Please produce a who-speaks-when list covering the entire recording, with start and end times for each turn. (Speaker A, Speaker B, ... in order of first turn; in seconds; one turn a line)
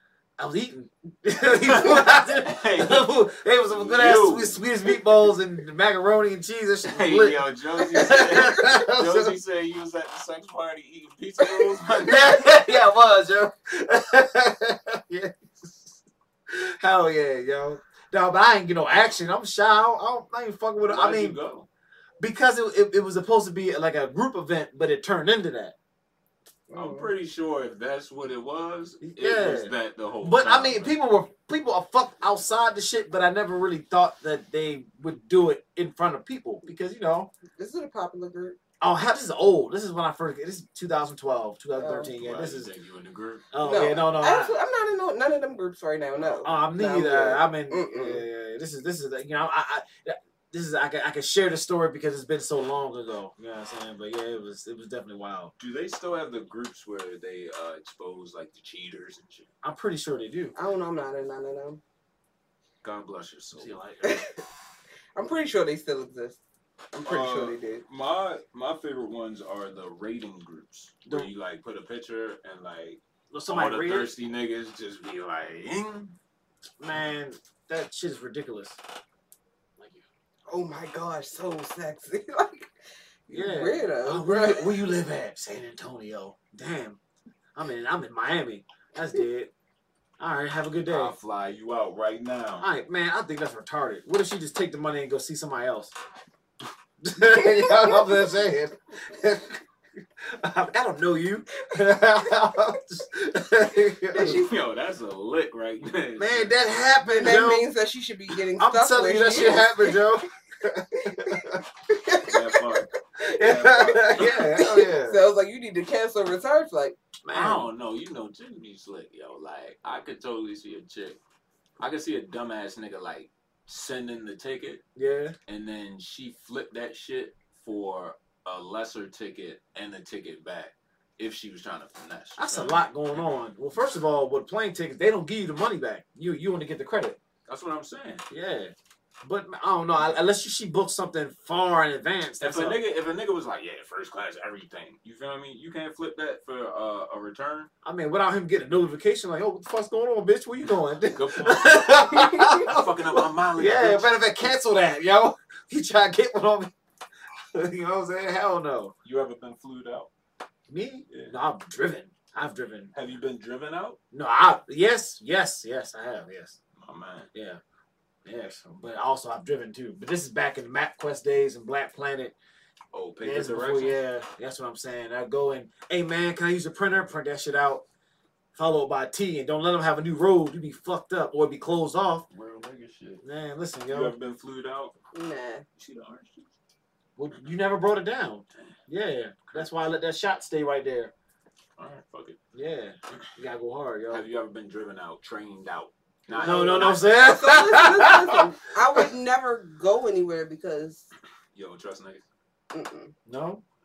Speaker A: 0.4-9.3
Speaker B: 1.5-4.6
Speaker B: 6.9-12.6
Speaker A: 12.0-21.4
Speaker B: 20.8-21.7
Speaker A: 22.2-25.7
Speaker C: 26.7-27.1
Speaker B: 26.7-30.9
Speaker A: 29.0-37.3
Speaker C: 37.5-38.6
Speaker A: 38.8-42.7
Speaker C: 41.8-42.1
Speaker B: 42.1-43.5
Speaker A: 43.5-44.5
Speaker C: 43.6-48.2
Speaker B: 46.2-46.5
Speaker A: 46.4-55.5
Speaker B: 55.6-59.5
Speaker A: 59.6-60.5
Speaker C: 60.5-61.8
Speaker B: 62.8-63.8
Speaker A: 63.5-64.2
Speaker C: 64.0-64.4
Speaker C: 65.1-66.4
Speaker C: 66.9-67.8
Speaker B: 67.0-76.2
Speaker A: 73.3-74.1
Speaker A: 76.8-78.8
Speaker A: 79.8-80.0
Speaker C: 80.5-82.7
Speaker C: 83.3-84.9
Speaker A: 83.3-87.0
Speaker A: 87.5-89.5
Speaker A: 90.2-91.1
Speaker B: 90.9-92.7
Speaker A: 92.6-95.9
Speaker A: 97.0-99.6
Speaker A: 100.2-104.5
Speaker C: 104.1-104.5
Speaker B: 104.2-106.6
Speaker A: 106.2-107.7
Speaker C: 107.1-110.2
Speaker A: 108.6-111.6
Speaker C: 111.0-117.0
Speaker B: 112.2-114.5
Speaker A: 113.2-115.2
Speaker A: 117.2-117.7
Speaker B: 117.3-121.2
Speaker B: 121.8-124.8
Speaker A: 125.0-125.3
Speaker B: 125.5-133.3
Speaker A: 132.4-137.2
Speaker B: 137.5-138.2
Speaker A: 138.3-142.8
Speaker B: 142.4-147.7
Speaker A: 147.8-156.7
Speaker B: 151.0-154.1
Speaker A: 157.5-158.9
Speaker B: 159.0-160.1
Speaker A: 160.7-162.9
Speaker B: 161.1-161.3
Speaker B: 162.9-164.0
Speaker A: 164.1-166.6
Speaker B: 166.7-167.3
Speaker A: 167.3-167.6
Speaker A: 168.2-172.3
Speaker B: 172.9-174.0
Speaker A: 173.2-177.8
Speaker A: 178.5-182.2
Speaker B: 182.3-183.2
Speaker A: 183.2-184.1
Speaker B: 183.9-184.9
Speaker C: 185.1-185.7
Speaker B: 185.8-186.5
Speaker A: 187.2-191.1
Speaker B: 191.8-192.4
Speaker A: 192.5-194.2
Speaker B: 194.1-197.0
Speaker C: 196.3-201.1
Speaker A: 196.4-198.4
Speaker B: 201.5-202.2
Speaker C: 202.7-203.1
Speaker A: 203.2-203.6